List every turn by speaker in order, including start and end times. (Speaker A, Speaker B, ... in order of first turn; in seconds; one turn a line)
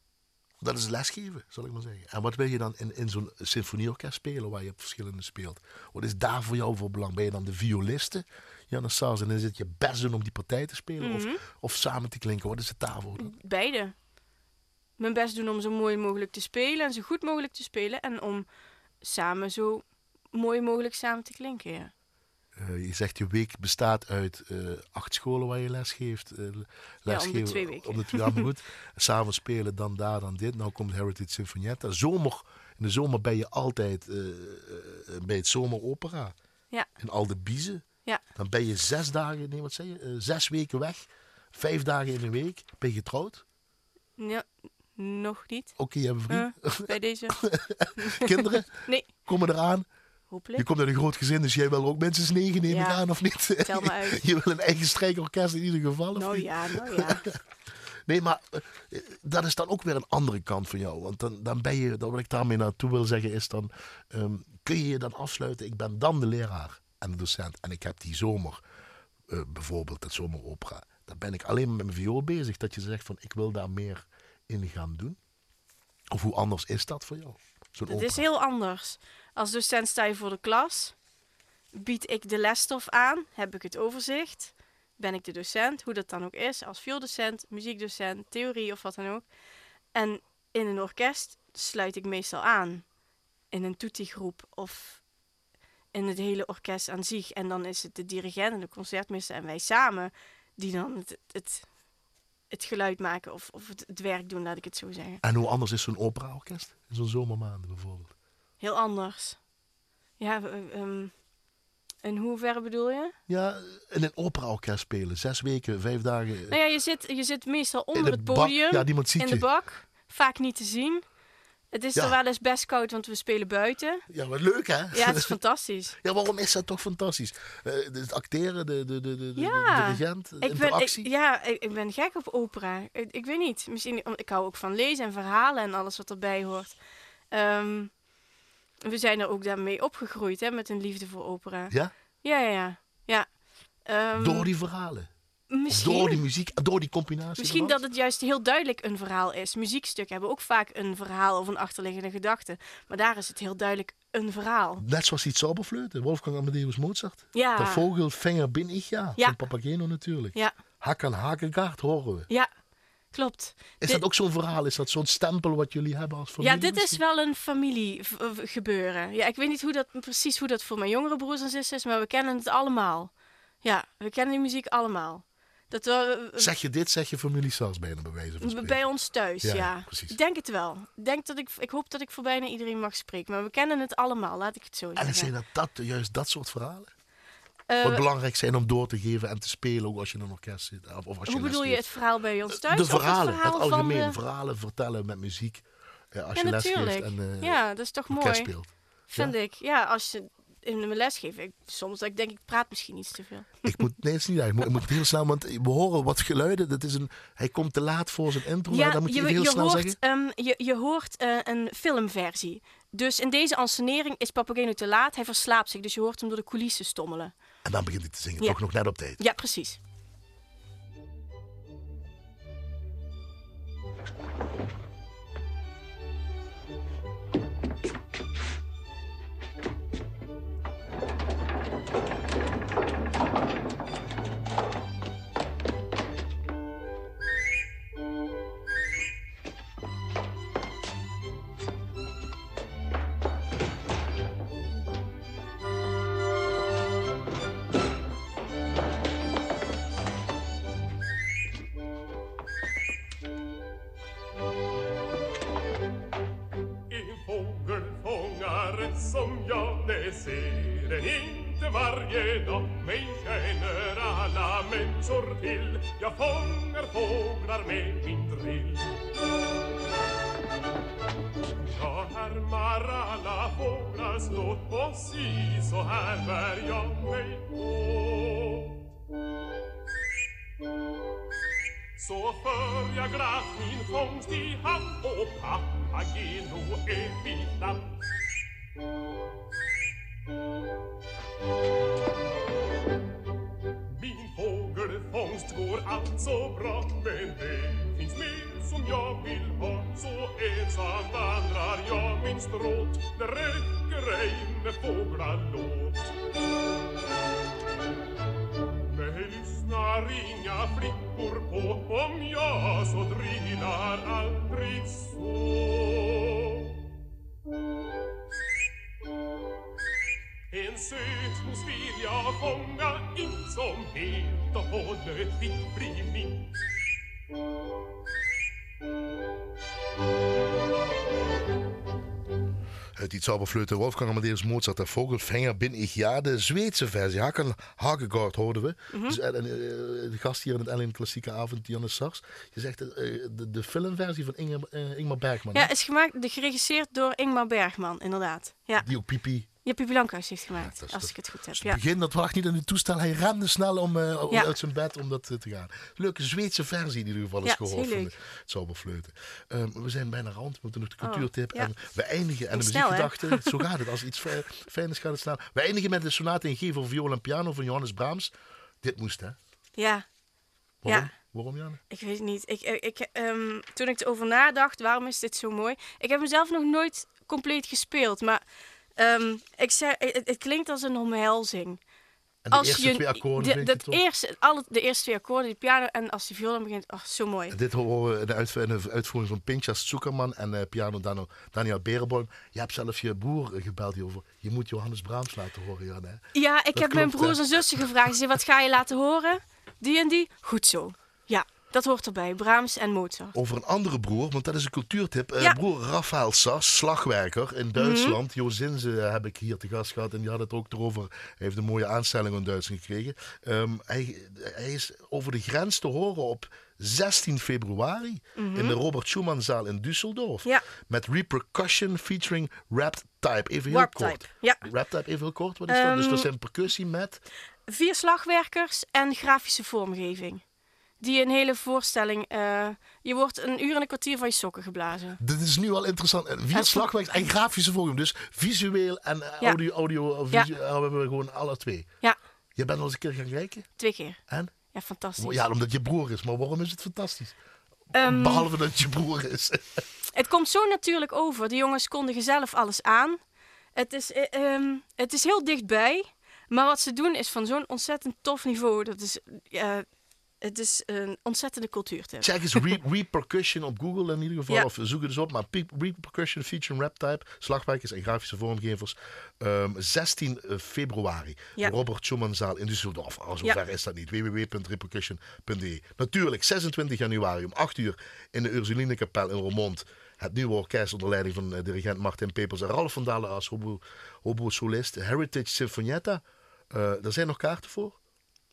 Speaker A: 0.6-13.3
Speaker B: 11.0-11.4
Speaker B: 13.2-13.9
Speaker B: 15.0-18.5
Speaker B: 19.0-21.9
Speaker A: 22.6-36.4
Speaker B: 27.1-28.5
Speaker A: 37.0-43.4
Speaker B: 44.2-45.8
Speaker A: 45.8-49.9
Speaker B: 46.3-47.4
Speaker B: 48.0-49.1
Speaker B: 50.3-50.6
Speaker A: 50.6-57.4
Speaker B: 52.7-53.0
Speaker B: 53.6-54.2
Speaker B: 56.1-57.3
Speaker A: 58.1-68.6
Speaker A: 69.3-75.2
Speaker A: 76.1-78.3
Speaker B: 77.9-81.0
Speaker B: 81.7-89.3
Speaker B: 89.9-92.8
Speaker B: 93.5-95.0
Speaker B: 95.9-101.7
Speaker B: 102.5-105.2
Speaker A: 105.2-108.1
Speaker B: 108.6-109.4
Speaker B: 110.2-111.1
Speaker B: 112.0-113.2
Speaker A: 113.3-116.6
Speaker B: 116.5-121.0
Speaker A: 117.9-119.5
Speaker B: 121.7-124.0
Speaker A: 124.1-125.4
Speaker B: 124.9-126.0
Speaker A: 126.0-131.1
Speaker B: 129.4-136.8
Speaker B: 137.3-137.9
Speaker B: 138.8-143.3
Speaker B: 143.8-144.5
Speaker A: 144.2-145.1
Speaker B: 145.5-146.2
Speaker A: 145.7-147.8
Speaker B: 147.4-154.8
Speaker A: 154.8-162.3
Speaker B: 157.3-157.9
Speaker B: 163.1-164.0
Speaker A: 163.8-167.0
Speaker B: 166.4-173.1
Speaker B: 173.6-176.5
Speaker A: 176.4-178.8
Speaker B: 178.4-185.3
Speaker A: 179.4-180.2
Speaker A: 185.0-186.9
Speaker B: 187.7-188.1
Speaker A: 187.8-191.9
Speaker B: 191.3-194.2
Speaker A: 192.5-199.3
Speaker B: 196.4-198.5
Speaker B: 199.1-203.9
Speaker A: 203.6-210.0
Speaker B: 208.7-217.3
Speaker A: 217.6-219.2
Speaker B: 219.2-219.8
Speaker C: 256.9-269.1
Speaker C: 271.6-278.9
Speaker C: 282.0-288.0
Speaker C: 293.9-306.2
Speaker C: 308.8-316.8
Speaker C: 320.5-326.5
Speaker A: 333.0-345.7
Speaker B: 338.9-339.2
Speaker B: 345.5-348.9
Speaker A: 348.8-349.5
Speaker B: 349.6-351.8
Speaker A: 350.6-369.4
Speaker B: 357.4-358.1
Speaker B: 361.0-361.7
Speaker B: 362.5-363.7
Speaker B: 369.8-370.1
Speaker A: 370.8-371.8
Speaker B: 370.9-371.1
Speaker B: 371.9-378.4
Speaker B: 379.0-381.8
Speaker A: 382.4-384.0
Speaker B: 382.5-387.6
Speaker A: 387.5-398.1
Speaker B: 396.3-403.4
Speaker A: 403.3-427.2
Speaker B: 407.8-408.2
Speaker B: 418.4-418.8
Speaker B: 423.7-424.6
Speaker B: 425.7-426.3
Speaker B: 427.7-430.4
Speaker B: 431.0-435.2
Speaker A: 435.2-441.9
Speaker B: 436.5-437.3
Speaker A: 442.6-443.7
Speaker B: 443.8-444.2
Speaker A: 444.3-444.5
Speaker B: 444.7-445.4
Speaker A: 445.2-447.4
Speaker B: 447.9-448.5
Speaker A: 448.0-449.8
Speaker B: 450.1-453.2
Speaker B: 453.8-459.9
Speaker B: 460.4-462.8
Speaker A: 462.2-488.0